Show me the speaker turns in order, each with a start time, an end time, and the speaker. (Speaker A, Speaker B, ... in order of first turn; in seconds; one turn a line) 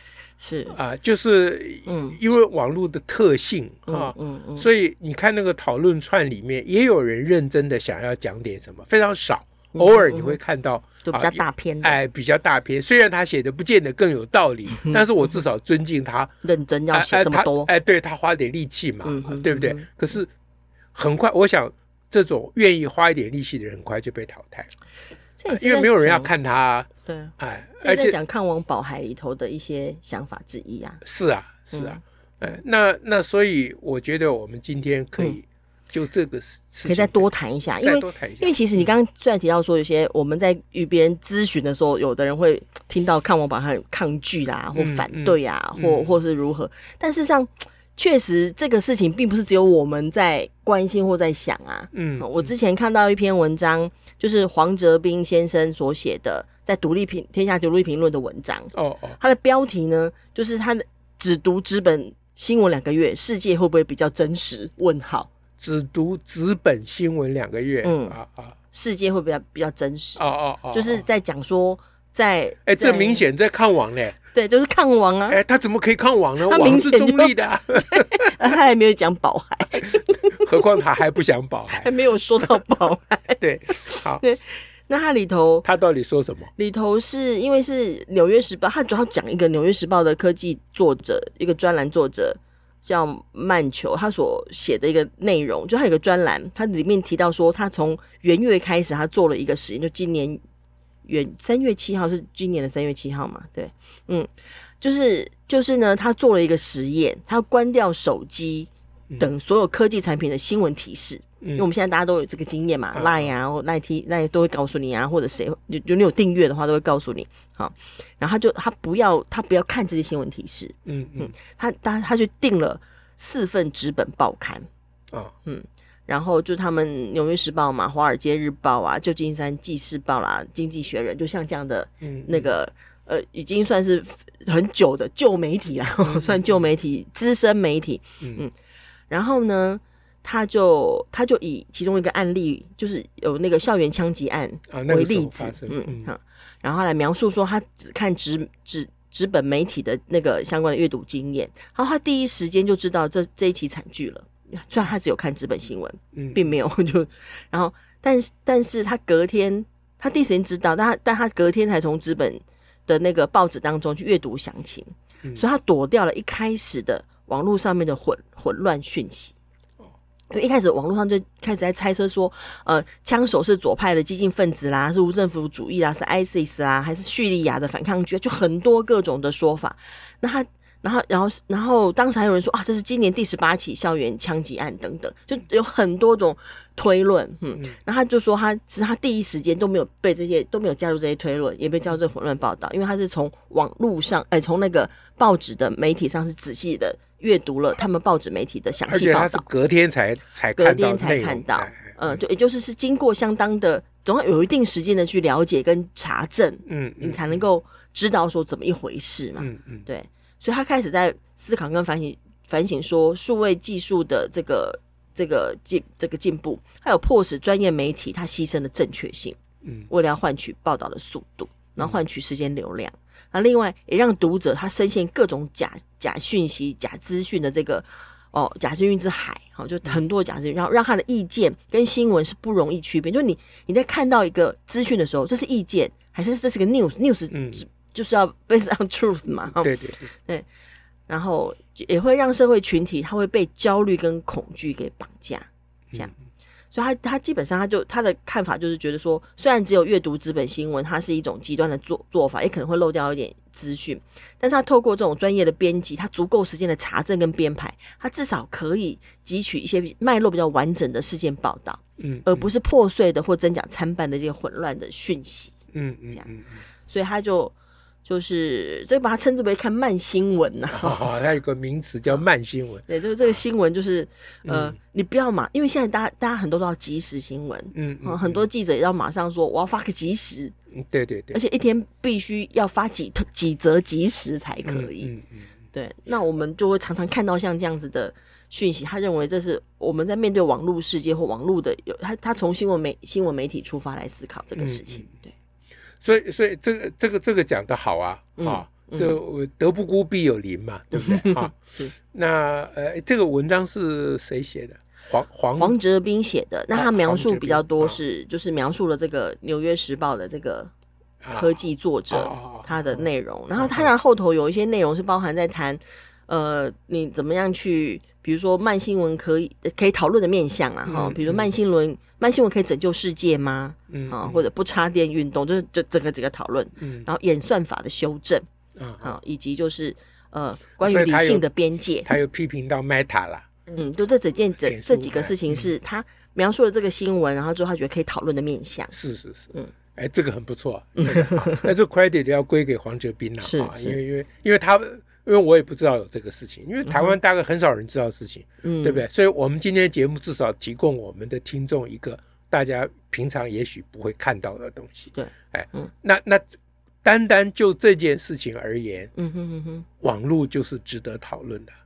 Speaker A: 0.4-0.8
Speaker B: 0.7-16.3
Speaker A: 1.9-2.2
Speaker A: 3.9-4.7
Speaker A: 9.7-10.4
Speaker A: 11.0-12.0
Speaker A: 14.7-15.0
Speaker A: 16.4-17.7
Speaker B: 16.9-20.3
Speaker A: 19.0-19.9
Speaker B: 20.9-24.7
Speaker A: 25.4-26.3
Speaker B: 25.5-28.1
Speaker A: 27.1-31.0
Speaker B: 31.0-37.3
Speaker A: 31.7-32.0
Speaker A: 36.9-65.3
Speaker B: 37.8-38.9
Speaker B: 44.7-46.1
Speaker B: 51.9-52.5
Speaker B: 58.7-59.2
Speaker B: 65.6-68.5
Speaker A: 67.8-68.2
Speaker A: 68.7-73.2
Speaker B: 70.2-71.0
Speaker B: 72.7-74.2
Speaker A: 74.3-75.4
Speaker B: 75.3-78.4
Speaker A: 76.4-80.6
Speaker B: 79.8-81.9
Speaker A: 81.7-85.7
Speaker B: 83.4-84.2
Speaker B: 85.6-86.5
Speaker A: 86.6-100.4
Speaker A: 101.0-124.7
Speaker B: 112.9-113.3
Speaker B: 120.8-121.3
Speaker A: 125.4-138.5
Speaker B: 132.0-132.5
Speaker B: 136.0-136.6
Speaker A: 139.1-169.3
Speaker B: 144.7-146.1
Speaker B: 156.1-156.4
Speaker A: 170.3-199.4
Speaker B: 198.9-202.2
Speaker A: 200.6-219.4
Speaker B: 206.7-207.4
Speaker B: 209.4-209.8
Speaker B: 219.6-219.9
Speaker A: 219.9-240.4
Speaker B: 237.3-237.6
Speaker B: 239.6-240.1
Speaker A: 241.1-246.1
Speaker A: 246.7-265.5
Speaker B: 262.0-262.5
Speaker B: 265.7-266.6
Speaker A: 266.9-267.5
Speaker A: 268.1-271.0
Speaker B: 270.7-272.8
Speaker A: 272.9-280.5
Speaker B: 274.4-274.8
Speaker B: 277.7-278.4
Speaker B: 280.7-281.4
Speaker A: 281.3-285.1
Speaker B: 284.6-285.5
Speaker A: 285.7-295.3
Speaker B: 294.6-295.1
Speaker B: 296.0-301.6
Speaker A: 298.4-299.2
Speaker A: 300.9-301.9
Speaker B: 302.1-305.7
Speaker A: 305.6-310.7
Speaker B: 306.7-308.0
Speaker B: 311.2-311.5
Speaker A: 311.3-328.4
Speaker B: 312.1-313.9
Speaker B: 320.9-321.5
Speaker B: 323.9-324.4
Speaker B: 326.8-327.1
Speaker B: 328.8-329.1
Speaker A: 329.0-332.1
Speaker B: 330.8-331.4
Speaker B: 332.0-333.4
Speaker A: 333.7-338.9
Speaker B: 334.6-335.7
Speaker B: 338.9-356.4
Speaker A: 341.0-341.7
Speaker A: 343.4-344.0
Speaker A: 346.9-347.1
Speaker A: 348.6-349.0
Speaker A: 355.1-355.9
Speaker B: 357.0-359.1
Speaker A: 359.1-359.8
Speaker B: 360.0-361.7